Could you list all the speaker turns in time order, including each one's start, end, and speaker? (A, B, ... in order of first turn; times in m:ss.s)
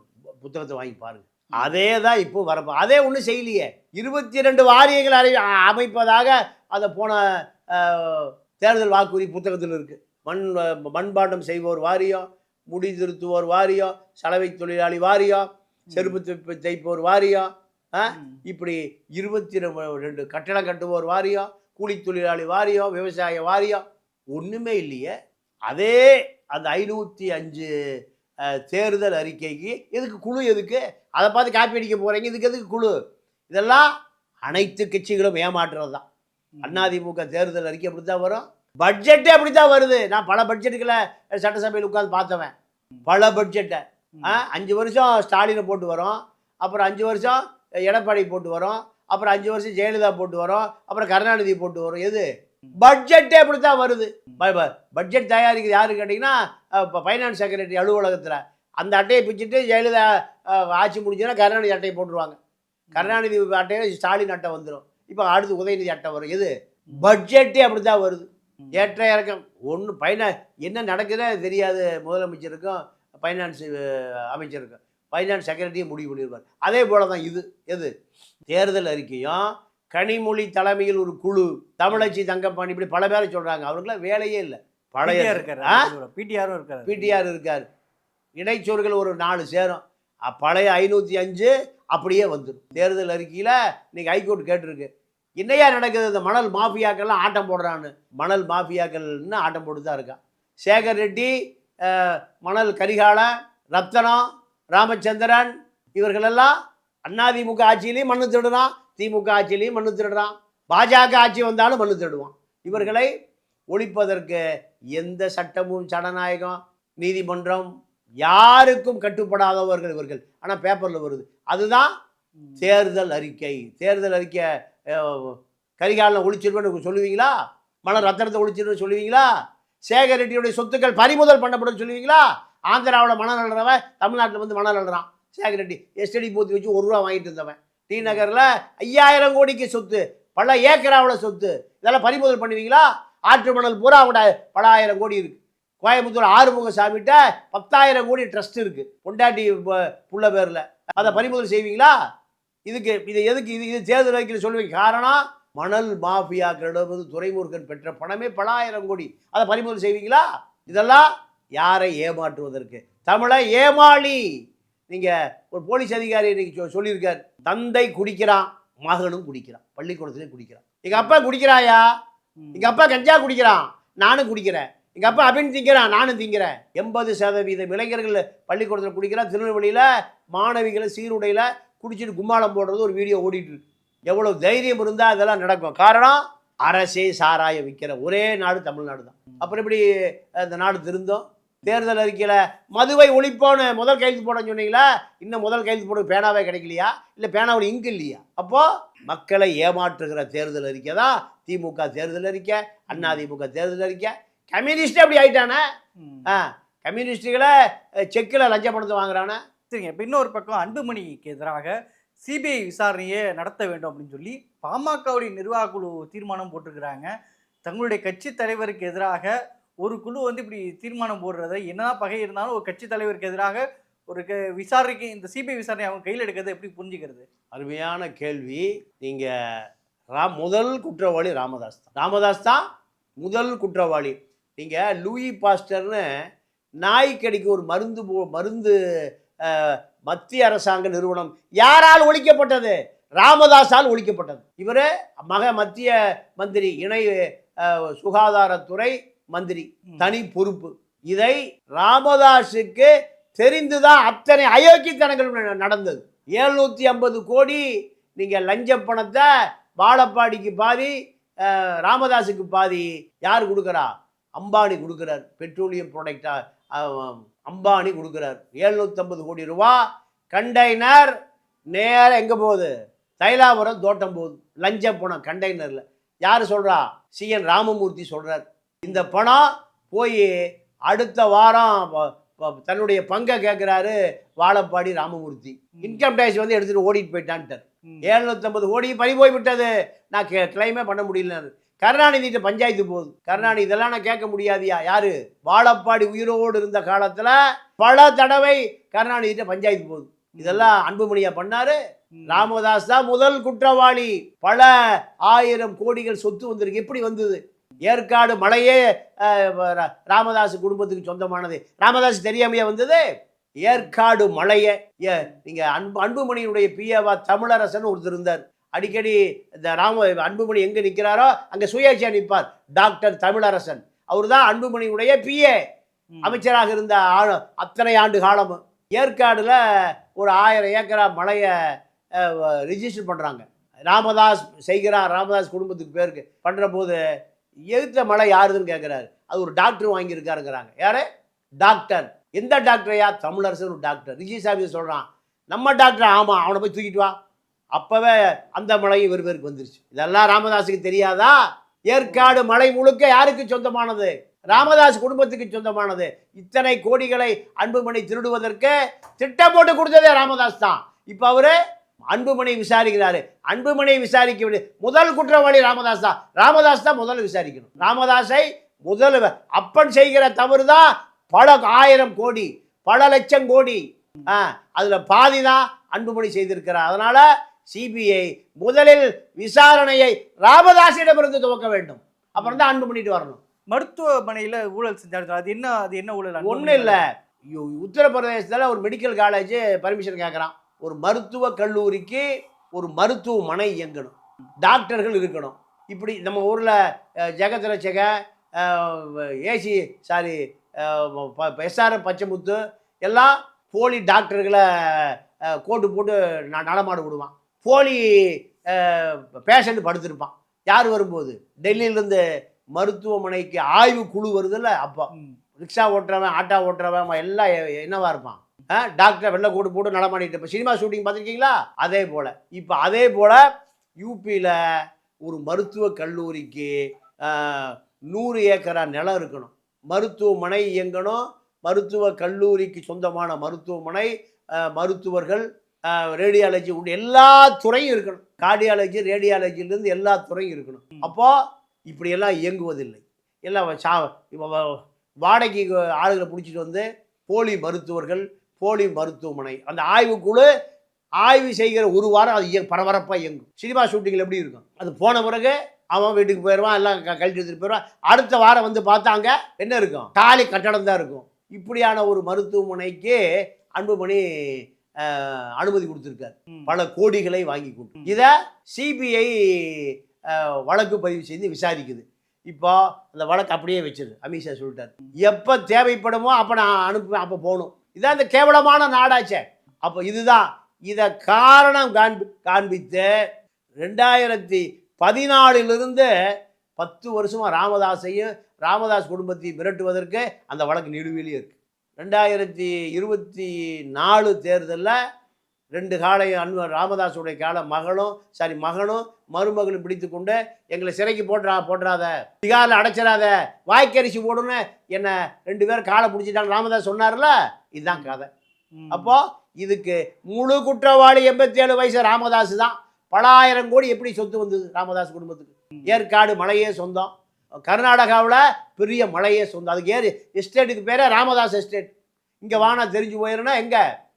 0:00.4-0:25.1 A
0:15.9-0:16.2 B
0:18.1-0:18.4 B
0:25.7-0:27.7 A
0:28.7-0:32.9 A
0:33.5-0:33.8 A
0:34.4-0:36.0 A
0:36.6-0:36.9 B
0:36.6-0:42.5 A
0:43.0-0:52.2 A
0:44.1-0:44.4 B
0:52.8-1:02.4 A
1:02.9-1:03.2 B
1:02.9-1:17.9 A
1:08.6-1:08.9 B
1:18.5-1:25.9 A
1:25.0-1:27.2 B
1:26.8-1:27.6 A
1:28.4-1:34.9 A
1:35.4-1:41.3 A
1:41.8-1:46.5 A
1:47.1-1:53.1 A
1:53.7-1:54.4 A
1:55.0-1:57.7 A
1:58.2-2:01.9 A
2:02.4-2:02.7 B
2:02.6-2:09.2 A
2:09.9-2:31.9 A
2:31.0-2:31.3 B
2:32.7-2:41.0 A
2:41.6-2:44.2 A
2:44.9-2:51.8 A
2:50.9-2:51.2 B
2:52.4-2:52.8 B
2:52.5-3:09.8 A
3:10.4-3:25.6 A
3:22.9-3:23.2 B
3:26.0-3:26.3 B
3:26.2-3:27.5 A
3:28.1-3:29.4 A
3:29.7-3:37.1 B
3:37.6-3:47.2 B
3:47.5-3:49.3 A
3:50.1-3:52.6 A
3:53.2-3:56.0 A
3:56.8-3:58.7 A
3:59.4-4:07.1 A
4:07.6-4:17.6 A
4:18.2-4:19.3 A
4:19.8-4:20.9 A
4:21.4-4:29.8 A
4:30.3-4:31.1 A
4:31.7-4:40.3 A
4:40.9-5:01.8 A
4:45.8-4:46.1 B
5:00.4-5:00.7 B
5:02.2-5:02.5 B
5:02.3-5:04.7 A
5:05.3-5:13.0 A
5:13.6-5:25.5 A
5:26.1-5:26.4 B
5:26.2-5:29.6 A
5:30.1-5:31.5 A
5:32.2-5:37.0 A
5:37.7-5:41.0 A
5:41.6-5:47.1 A
5:47.7-5:51.4 A
5:51.9-6:01.5 A
5:52.0-5:52.4 B
6:02.1-6:23.4 A
6:22.4-6:22.6 B
6:23.7-6:27.0 B
6:26.4-6:36.7 A
6:37.3-6:52.2 A
6:52.7-7:03.4 A
7:04.0-7:04.6 A
7:05.2-7:06.7 A
7:07.2-7:21.3 A
7:21.9-7:30.5 A
7:31.2-7:43.2 A
7:43.8-7:44.2 A
7:45.0-8:03.1 A
8:03.8-8:06.1 A
8:06.8-8:15.0 A
8:15.7-8:28.3 A
8:27.9-8:28.2 B
8:28.8-8:29.1 B
8:28.9-8:37.1 A
8:37.6-8:41.9 A
8:42.4-8:43.8 A